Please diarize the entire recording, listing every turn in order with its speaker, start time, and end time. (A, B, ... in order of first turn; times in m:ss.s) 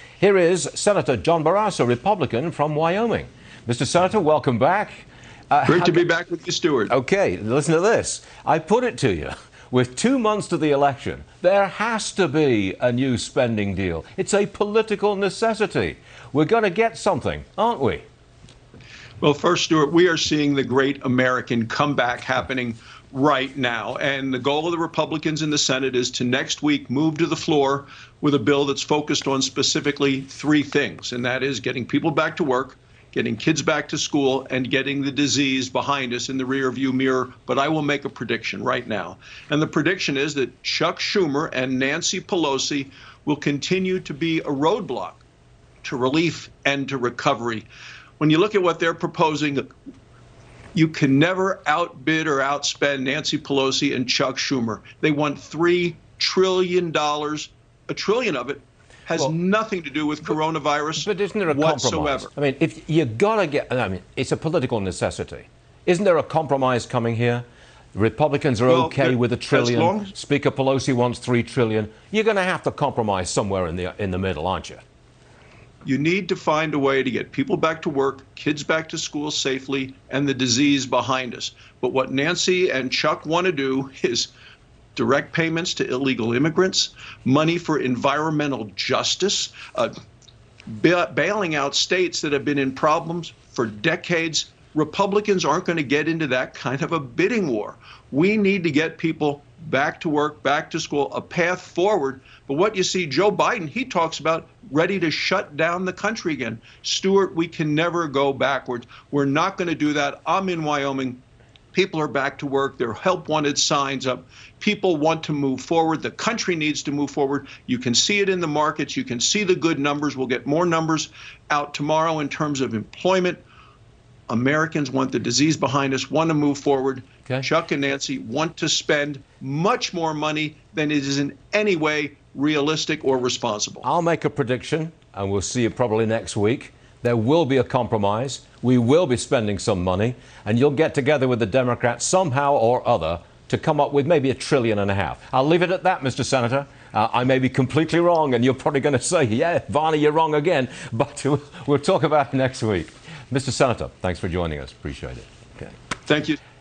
0:00.2-0:06.0 A
0:05.6-0:06.9 B
0:06.9-0:18.0 A
0:19.2-0:45.2 B
0:45.8-0:47.7 B
0:48.2-0:49.6 B
0:50.7-1:02.3 B
1:01.0-1:14.8 A
1:08.7-1:10.1 B
1:15.8-1:24.3 B
1:25.0-1:30.0 B
1:30.7-1:51.2 B
1:51.7-2:03.4 B
2:04.3-2:13.8 B
2:13.8-2:35.7 A
2:36.0-2:36.4 B